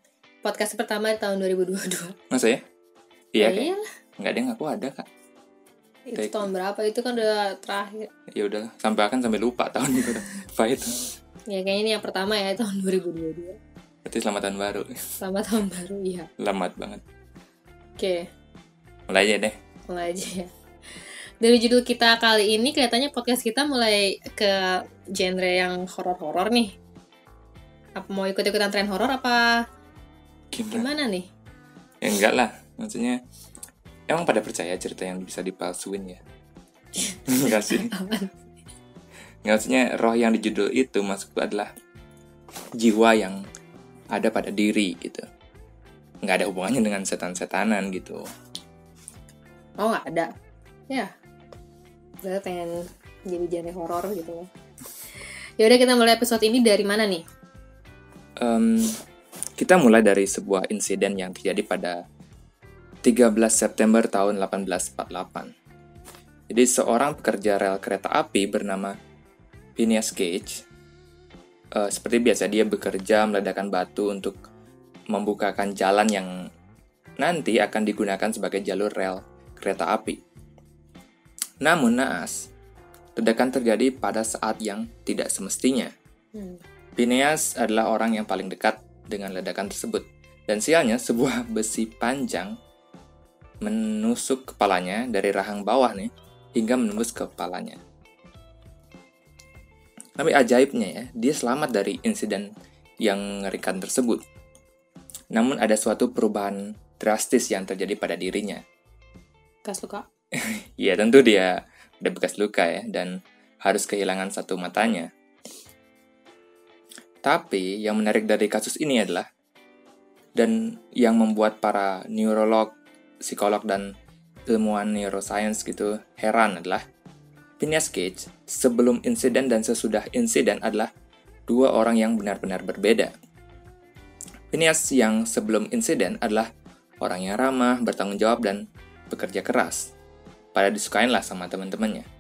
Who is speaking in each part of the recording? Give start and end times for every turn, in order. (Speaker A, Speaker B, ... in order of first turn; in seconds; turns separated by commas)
Speaker A: 0.4-2.1, Speaker B: 2.3-2.6, Speaker B: 3.3-5.1, Speaker A: 3.4-3.8, Speaker A: 6.1-8.1, Speaker B: 6.2-6.5, Speaker B: 8.3-11.1, Speaker A: 11.5-13.6, Speaker B: 14.1-14.9, Speaker A: 15.2-16.3, Speaker B: 16.4-17.0, Speaker A: 18.0-18.3, Speaker B: 19.1-19.6, Speaker A: 19.9-20.5, Speaker A: 21.4-26.7, Speaker A: 28.0-29.5, Speaker B: 30.5-30.9, Speaker A: 30.7-31.3, Speaker B: 32.0-33.2, Speaker B: 34.1-36.2, Speaker A: 37.0-38.4, Speaker B: 37.3-37.9, Speaker B: 39.5-41.7, Speaker B: 42.8-43.4, Speaker B: 44.1-45.2, Speaker B: 46.2-48.2, Speaker A: 49.8-50.3, Speaker A: 52.2-54.5, Speaker A: 55.6-57.2, Speaker B: 58.4-59.0, Speaker B: 59.6-62.0, Speaker B: 63.0-65.5, Speaker B: 66.5-68.9, Speaker B: 69.8-70.6, Speaker B: 71.8-74.4, Speaker B: 75.1-76.3, Speaker B: 77.2-80.2, Speaker B: 81.6-82.5, Speaker B: 83.2-85.9, Speaker A: 86.3-86.6, Speaker B: 87.0-92.5, Speaker B: 93.7-97.8, Speaker B: 100.2-102.5, Speaker B: 103.0-104.2, Speaker B: 105.3-108.6, Speaker A: 109.7-110.1, Speaker B: 110.4-113.1, Speaker B: 113.6-115.1, Speaker B: 117.2-119.3, Speaker B: 120.4-122.8, Speaker B: 123.3-123.9, Speaker B: 124.5-126.8, Speaker B: 127.6-130.9, Speaker B: 131.5-133.1, Speaker B: 134.5-136.5, Speaker B: 137.0-139.9, Speaker B: 140.6-142.1